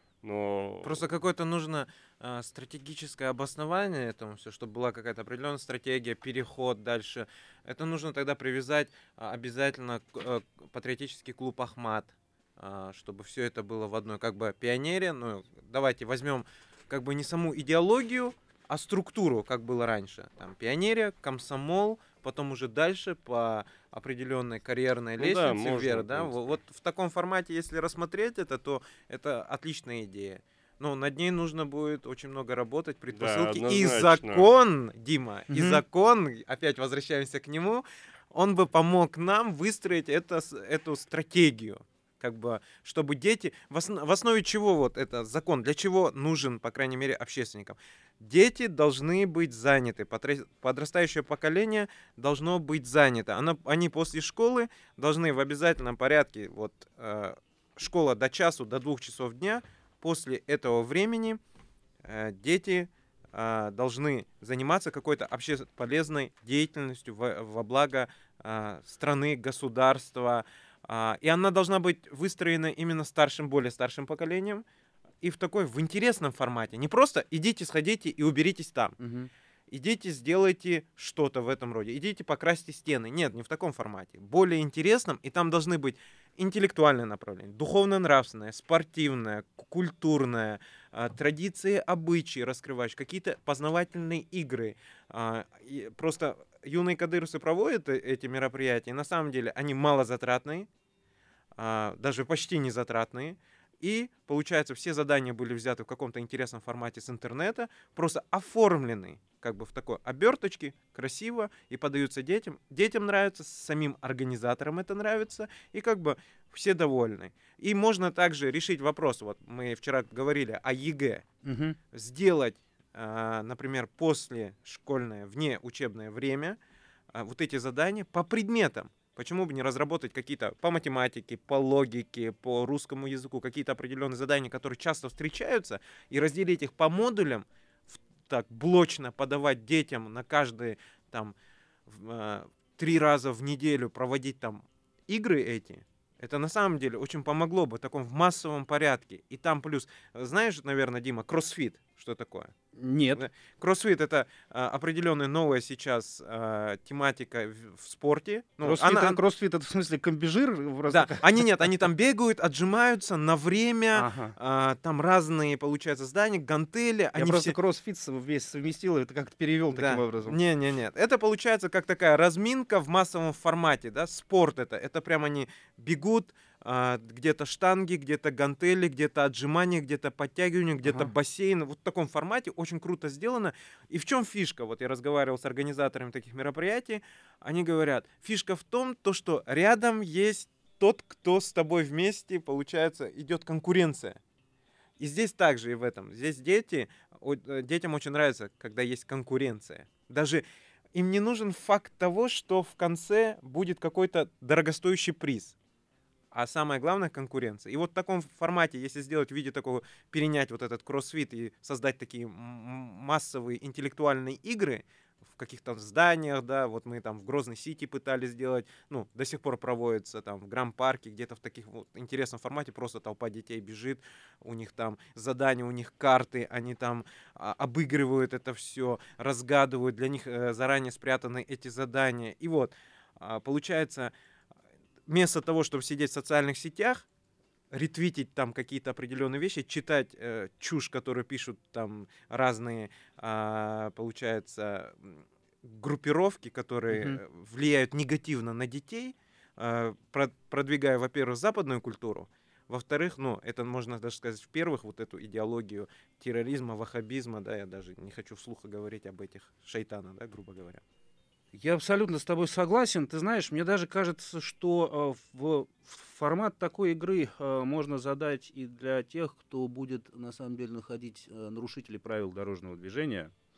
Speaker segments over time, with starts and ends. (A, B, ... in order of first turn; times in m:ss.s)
0:00.2-0:01.1 A
0:00.8-1:01.4 B
0:25.2-0:26.6 A
0:33.1-0:34.5 A
0:35.5-0:35.8 C
1:02.0-1:14.6 B
1:15.2-1:19.0 B
1:19.0-1:19.3 C
1:19.7-1:40.7 B
1:41.6-2:01.3 B
2:01.4-2:01.8 C
2:01.9-2:06.6 B
2:07.1-2:21.4 B
2:21.9-2:32.5 B
2:32.8-2:33.2 C
2:33.1-2:39.2 B
2:38.6-2:41.4 C
2:40.9-2:47.6 B
2:43.9-2:44.4 C
2:47.2-2:50.4 C
2:49.7-3:14.2 B
3:00.8-3:01.1 C
3:15.0-3:25.6 B
3:26.3-3:54.1 B
3:55.1-3:57.1 B
3:57.7-4:20.8 B
4:06.9-4:07.2 C
4:21.6-4:33.3 C